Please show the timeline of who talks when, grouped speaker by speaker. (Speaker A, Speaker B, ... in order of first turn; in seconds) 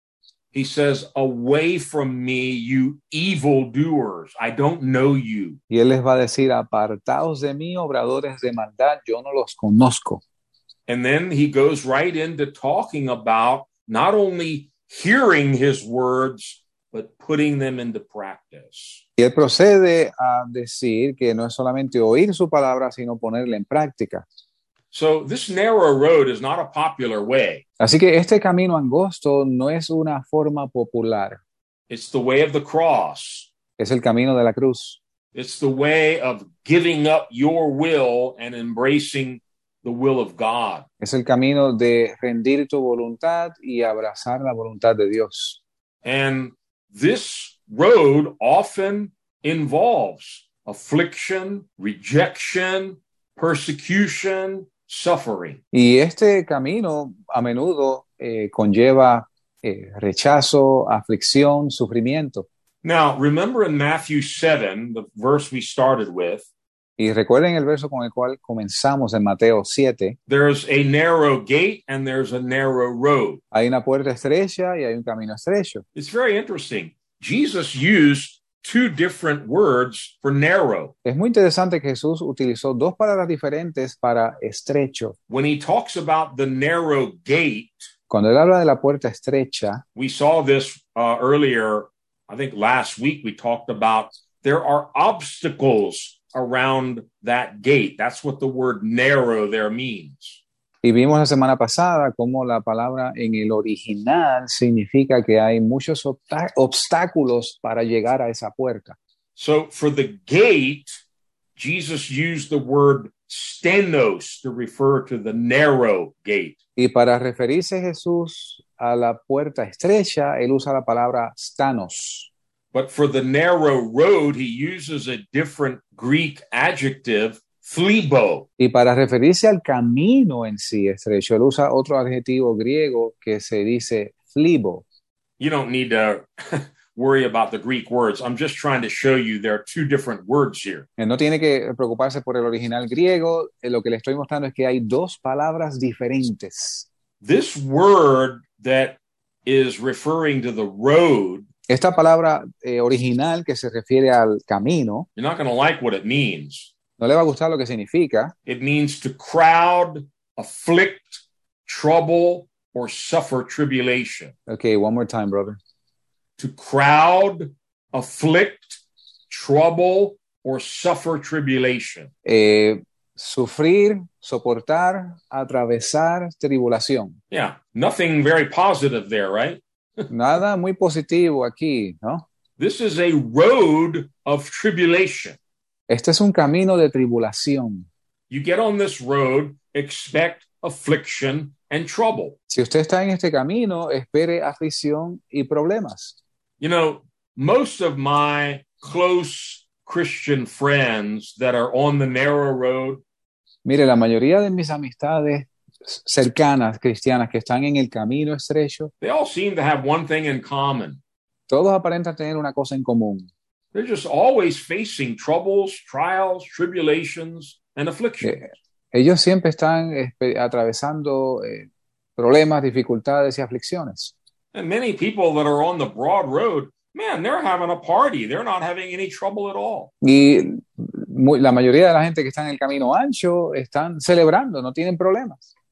Speaker A: 0.5-5.6, 10.9-19.0, 24.9-27.6, 31.9-33.5, 35.3-40.9, 46.0-55.6, 62.8-66.5, 70.3-73.4, 75.9-80.9, 85.3-87.9, 89.9-100.4, 109.4-110.9, 111.5-116.5, 122.7-128.4, 135.4-140.9, 147.2-151.4, 155.2-156.7, 158.4-164.3, 166.4-172.1, 177.3-180.1, 182.6-185.4, 188.3-192.3, 196.6-203.0, 209.0-211.0, 213.7-218.4, 224.5-229.9
Speaker B: 5.7-10.2, 19.2-24.2, 27.8-31.4, 33.8-35.0, 41.0-45.6, 55.7-62.5, 67.0-70.2, 73.5-75.8, 81.0-85.2, 88.1-89.8, 100.8-109.0, 116.8-122.3, 128.6-134.8, 141.0-146.9, 151.7-155.1, 157.0-158.3, 164.5-165.6, 172.2-177.2, 180.1-182.2, 185.9-187.9, 192.5-196.2, 203.6-208.9, 211.5-213.3, 218.2-224.1, 230.0-235.5